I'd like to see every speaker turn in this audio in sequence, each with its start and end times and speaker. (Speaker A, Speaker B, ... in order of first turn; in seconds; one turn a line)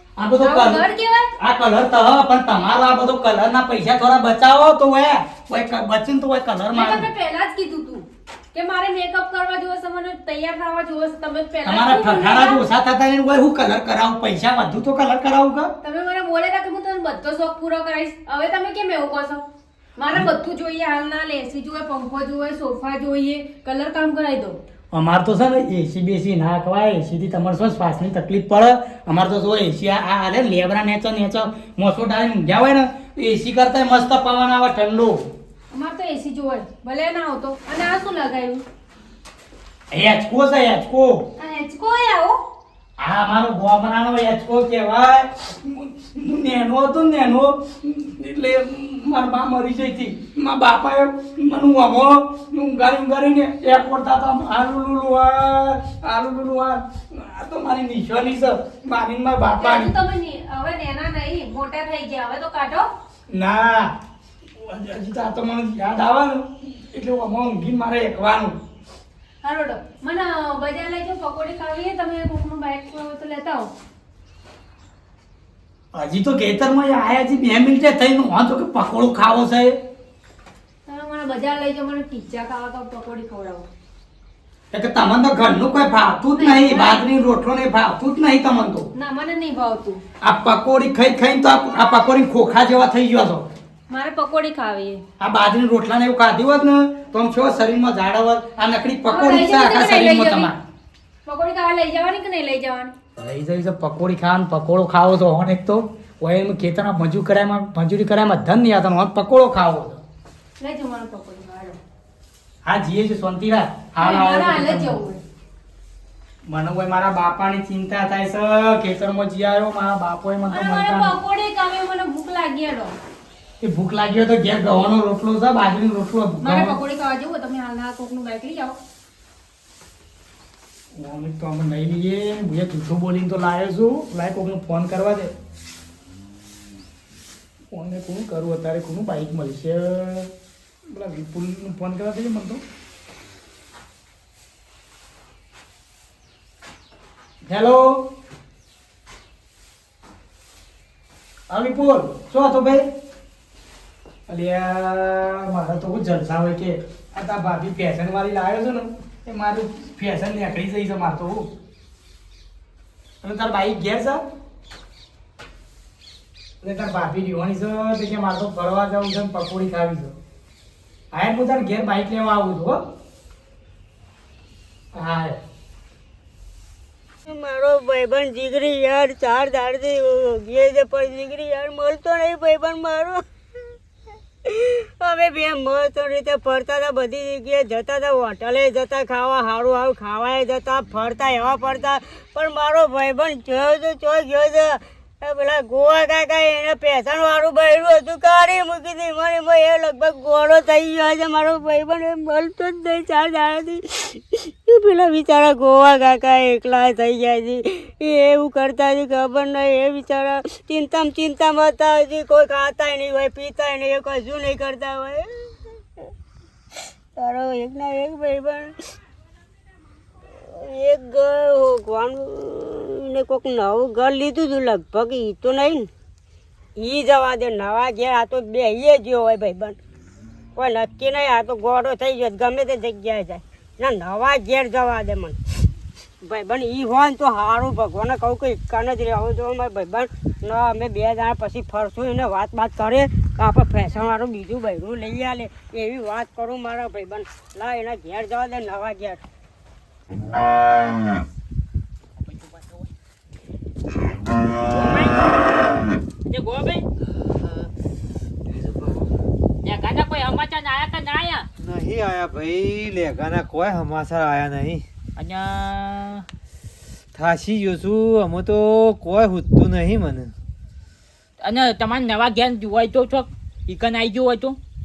Speaker A: 0.2-0.8
Speaker B: 0.4-1.3
Speaker A: 1.4-7.1
Speaker B: 6.7-12.6
Speaker A: 11.7-15.7
Speaker B: 15.8-19.4
Speaker B: 20.0-24.6
Speaker A: 24.9-35.3
Speaker B: 35.7-38.6
Speaker A: 39.9-41.2
Speaker B: 41.4-42.4
Speaker A: 43.0-59.9
Speaker B: 59.6-62.9
Speaker A: 63.3-63.9
Speaker A: 64.5-68.6
Speaker B: 69.4-73.7
Speaker A: 75.9-79.8
Speaker B: 80.9-83.7
Speaker A: 84.7-88.9
Speaker B: 86.3-87.0
Speaker B: 89.0-90.0
Speaker A: 90.2-93.5
Speaker B: 93.9-95.0
Speaker A: 95.2-100.6
Speaker B: 99.1-100.5
Speaker B: 101.3-102.9
Speaker A: 103.2-110.0
Speaker B: 110.6-111.8
Speaker A: 112.6-115.0
Speaker B: 114.0-115.2
Speaker A: 116.5-121.1
Speaker B: 120.5-123.0
Speaker A: 123.6-126.8
Speaker B: 126.4-128.8
Speaker A: 130.9-135.3
Speaker A: 137.7-140.3
Speaker A: 140.9-142.6
Speaker A: 147.4-148.0
Speaker A: 151.5-152.9
Speaker A: 154.3-161.5
Speaker A: 163.2-164.2
Speaker A: 166.6-170.2
Speaker A: 171.1-172.8
Speaker A: 174.9-175.4
Speaker C: 177.3-183.8
Speaker C: 184.4-216.1
Speaker C: 216.8-218.8
Speaker C: 220.3-225.9
Speaker C: 226.8-229.8
Speaker C: 230.6-235.4
Speaker C: 236.2-249.2
Speaker D: 252.2-252.8
Speaker D: 254.6-255.5
Speaker D: 256.3-256.9
Speaker E: 257.2-257.7
Speaker E: 258.5-259.1
Speaker D: 259.6-261.5
Speaker E: 261.6-264.8
Speaker D: 265.2-266.2
Speaker E: 267.1-270.3
Speaker D: 271.4-274.6